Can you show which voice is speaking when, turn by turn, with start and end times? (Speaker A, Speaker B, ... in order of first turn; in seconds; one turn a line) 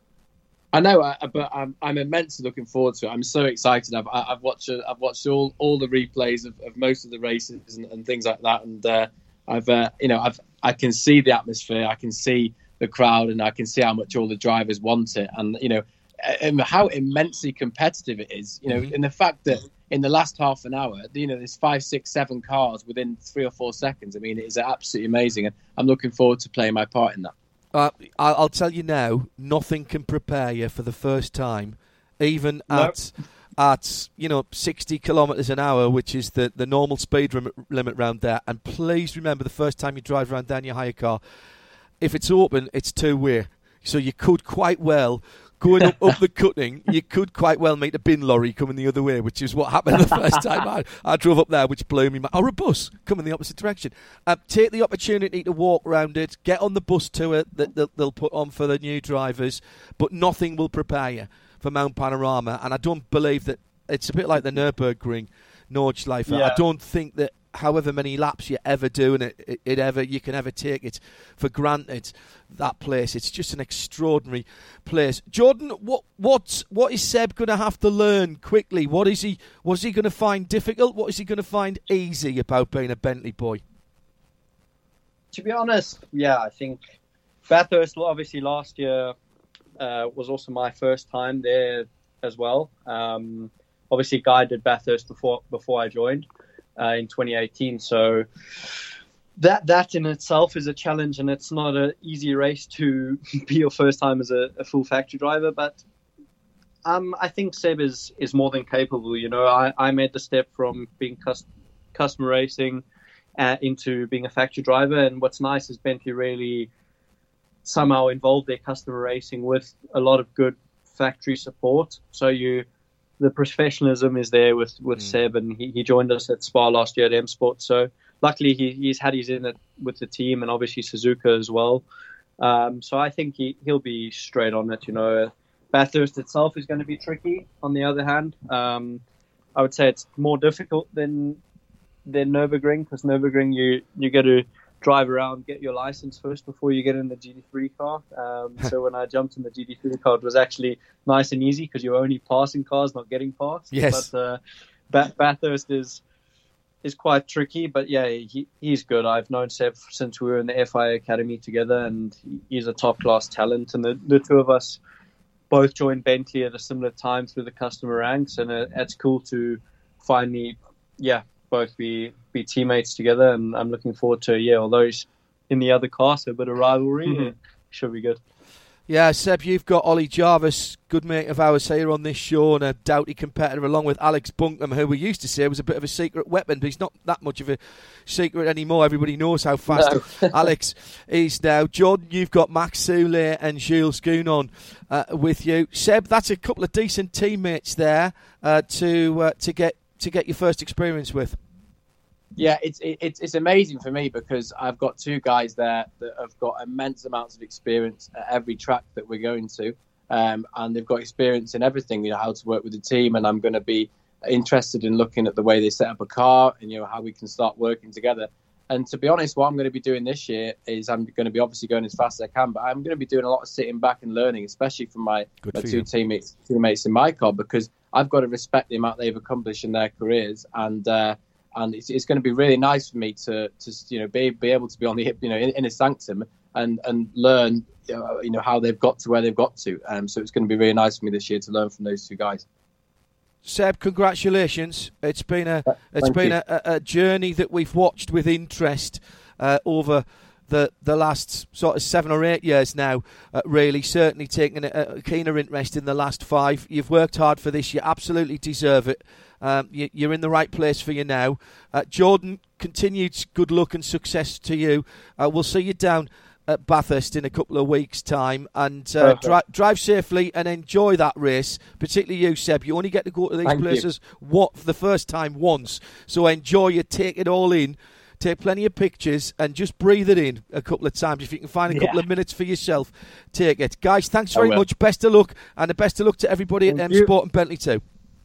Speaker A: 0.7-27.3
Speaker B: 27.7-41.2
Speaker C: 32.7-33.0
Speaker B: 42.0-83.6
Speaker C: 85.3-86.8
Speaker C: 87.5-89.1
Speaker C: 89.8-98.2
Speaker C: 99.4-105.8
Speaker C: 106.8-112.8
Speaker C: 113.4-116.7
Speaker C: 117.6-122.7
Speaker C: 123.2-131.8
Speaker C: 132.4-139.0
Speaker C: 139.5-141.4
Speaker C: 142.1-156.0
Speaker B: 153.7-154.1
Speaker C: 156.8-164.8
Speaker C: 165.5-178.2
Speaker B: 178.9-201.4
Speaker C: 189.7-190.0
Speaker A: 202.3-242.4
Speaker B: 225.4-225.9
Speaker B: 243.4-287.8
Speaker C: 269.0-269.4
Speaker A: 273.5-273.8
Speaker A: 284.3-284.6
Speaker C: 286.7-287.1